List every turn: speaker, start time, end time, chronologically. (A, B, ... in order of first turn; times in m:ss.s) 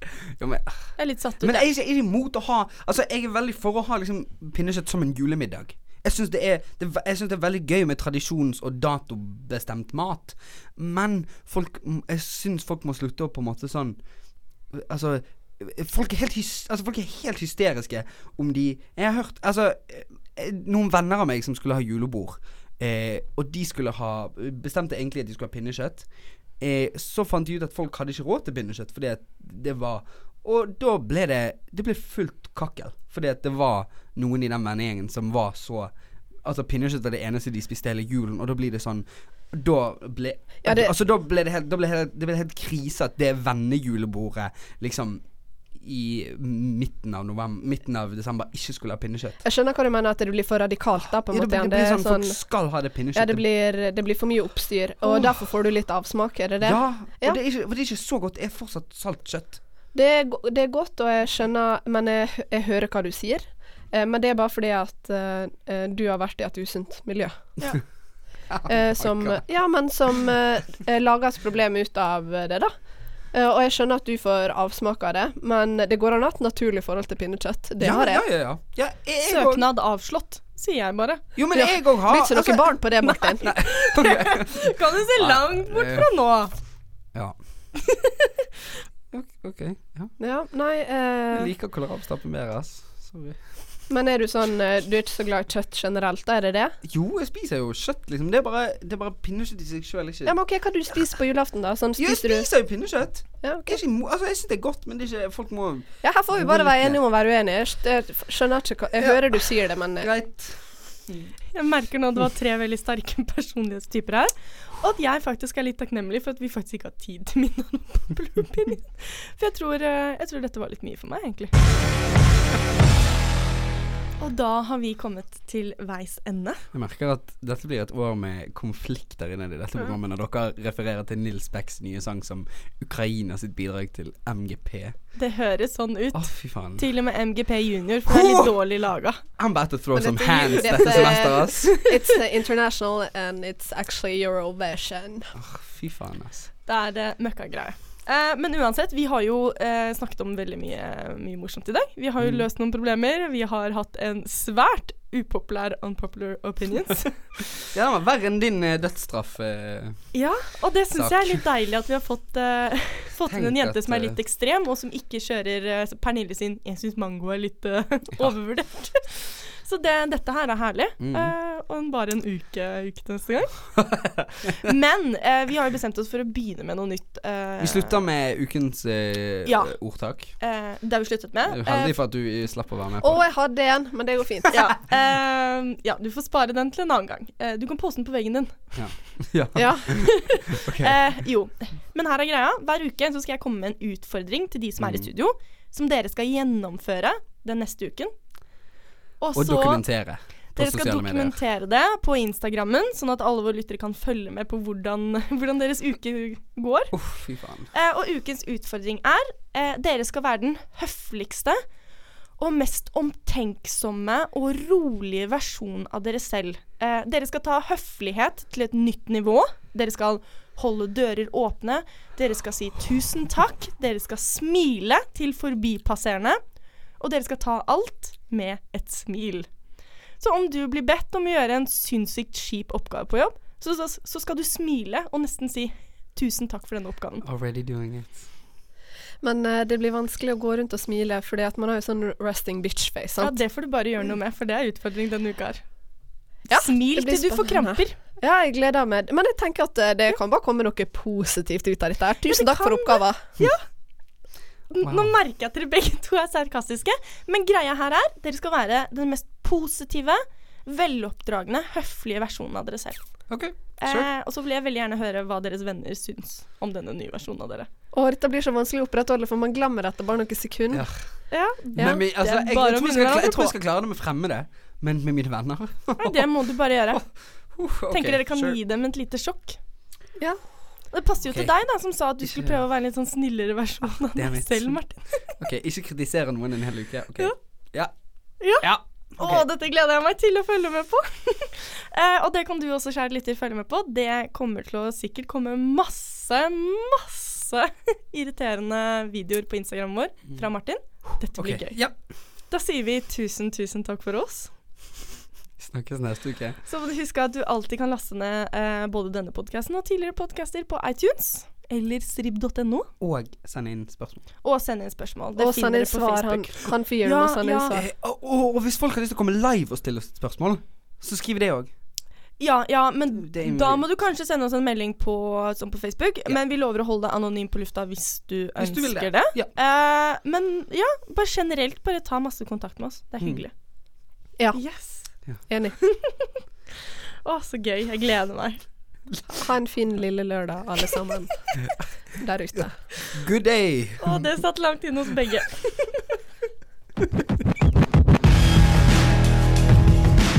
0:00.3-0:14.0 A
0:01.0-0:01.7 B
0:14.7-0:35.9 A
0:36.4-0:49.4 A
0:40.6-0:40.9 C
0:49.4-0:52.4 C
0:51.1-0:53.4 A
0:53.1-0:57.4 C
0:55.0-0:55.4 A
0:56.6-0:59.6 A
0:59.9-1:07.5 C
1:08.5-1:09.5 A
1:08.7-1:12.7 C
1:13.3-1:18.2 C
1:17.8-1:19.7 A
1:19.2-1:21.2 B
1:21.4-1:22.8 A
1:21.5-1:23.6 C
1:23.0-1:26.5 B
1:23.4-1:26.1 A
1:27.1-1:27.4 A
1:27.9-1:28.3 B
1:29.1-1:30.1 A
1:30.2-1:31.5 C
1:31.3-1:33.9 A
1:33.9-1:36.8 C
1:36.8-1:40.4 A
1:40.3-1:42.5 C
1:42.0-1:47.0 A
1:43.4-1:43.8 C
1:46.0-1:50.1 C
1:49.0-1:49.4 A
1:50.0-1:51.3 A
1:51.5-2:01.5 B
2:04.2-2:06.6 B
2:06.7-2:15.1 A
2:15.2-2:19.2 B
2:16.1-2:16.9 A
2:18.1-2:18.5 A
2:19.4-2:21.8 A
2:20.0-2:25.3 C
2:20.8-2:21.3 B
2:25.4-2:26.5 A
2:26.7-2:37.4 B
2:32.2-2:32.5 A
2:37.7-2:40.2 A
2:40.1-2:53.9 B
2:41.0-2:41.4 A
2:43.3-2:44.2 A
2:51.0-2:51.3 A
2:54.6-2:58.0 B
2:57.6-3:00.4 A
2:59.5-3:02.0 B
3:01.5-3:03.2 A
3:03.0-3:04.6 C
3:04.5-3:09.0 B
3:08.7-3:11.1 A
3:09.6-3:10.0 C
3:10.0-3:18.1 B
3:14.8-3:15.1 A
3:19.2-3:27.0 B
3:19.4-3:21.4 A
3:26.9-3:27.7 A
3:27.7-3:31.6 B
3:32.4-3:46.4 B
3:47.0-3:49.6 B
3:50.2-3:57.2 B
3:57.2-3:58.3 A
3:59.2-4:03.4 C
4:03.2-4:05.6 B
4:06.5-4:13.3 C
4:06.5-4:08.0 B
4:12.3-4:13.6 B
4:14.7-4:27.7 B
4:14.8-4:15.1 A
4:23.3-4:24.1 A
4:27.9-4:30.9 C
4:30.7-4:36.2 A
4:31.3-4:33.5 B
4:31.8-4:32.0 C
4:36.0-4:37.1 B
4:37.0-4:38.6 A
4:37.9-4:39.6 B
4:40.2-4:40.4 C
4:40.9-4:45.4 B
4:41.2-4:41.5 A
4:42.2-4:42.6 A
4:44.0-4:48.0 A
4:48.4-5:04.5 B
4:48.5-4:49.5 A
5:01.4-5:02.0 A
5:05.6-5:06.6 A
5:06.6-5:12.9 B
5:13.0-5:14.2 A
5:14.4-5:17.8 B
5:15.4-5:17.9 C
5:17.7-5:21.7 A
5:22.4-5:33.5 B
5:23.2-5:23.9 A
5:28.6-5:29.5 A
5:34.4-5:34.8 C
5:34.5-5:35.2 B
5:35.5-5:35.8 C
5:35.8-5:36.2 B
5:37.2-5:38.6 B
5:39.1-5:39.4 A
5:39.4-5:41.5 C
5:42.2-5:42.9 C
5:43.1-5:44.3 A
5:44.0-5:46.0 B